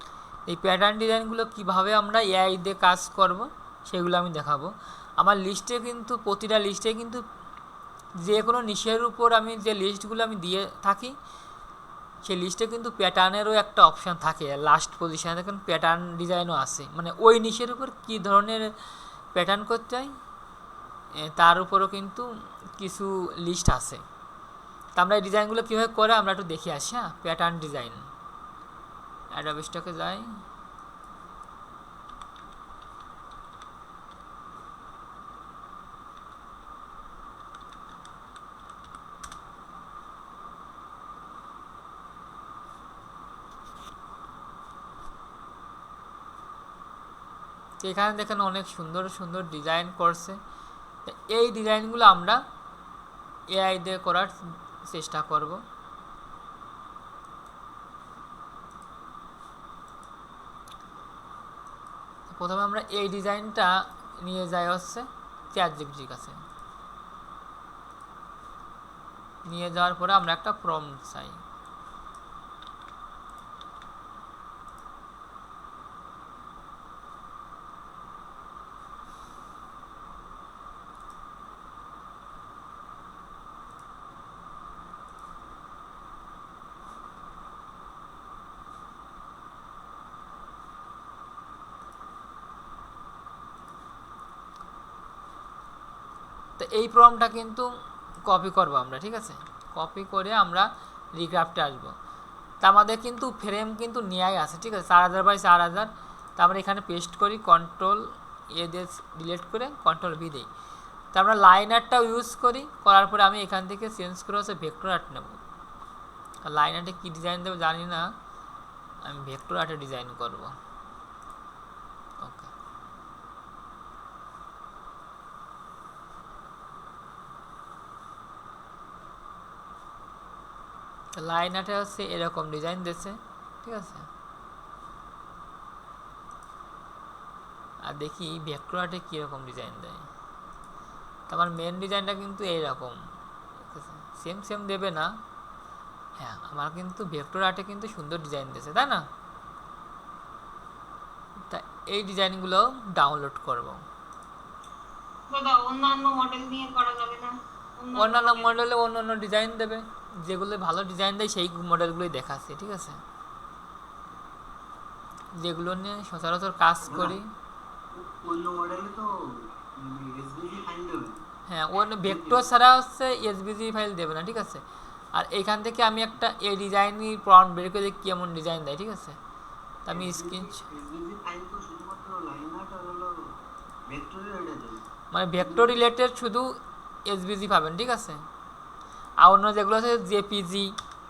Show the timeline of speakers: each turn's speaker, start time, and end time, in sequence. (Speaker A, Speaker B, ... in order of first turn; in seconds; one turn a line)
Speaker A: 0.5-7.2
Speaker A: 8.2-11.1
Speaker A: 12.2-18.7
Speaker A: 19.3-20.1
Speaker A: 21.2-24.0
Speaker A: 25.0-28.1
Speaker A: 29.3-30.2
Speaker A: 47.8-50.4
Speaker A: 51.1-52.4
Speaker A: 53.5-55.6
Speaker A: 62.3-66.4
Speaker A: 69.5-71.4
Speaker A: 96.6-97.7
Speaker A: 98.3-101.9
Speaker A: 102.6-110.5
Speaker A: 111.1-115.4
Speaker A: 116.4-118.1
Speaker A: 119.0-120.5
Speaker A: 122.2-122.5
Speaker A: 131.2-134.1
Speaker A: 137.8-140.1
Speaker A: 141.3-143.0
Speaker A: 143.6-145.1
Speaker A: 146.2-149.1
Speaker A: 151.5-153.8
Speaker B: 155.3-158.5
Speaker A: 157.9-163.0
Speaker A: 165.4-167.3
Speaker C: 166.9-167.2
Speaker C: 167.9-169.1
Speaker C: 169.8-171.2
Speaker A: 171.5-174.6
Speaker C: 172.1-172.5
Speaker A: 175.1-179.2
Speaker A: 179.8-180.6
Speaker C: 179.9-183.2
Speaker C: 183.9-184.8
Speaker A: 185.1-186.5
Speaker C: 185.4-185.8
Speaker A: 187.1-188.2
Speaker A: 189.2-190.7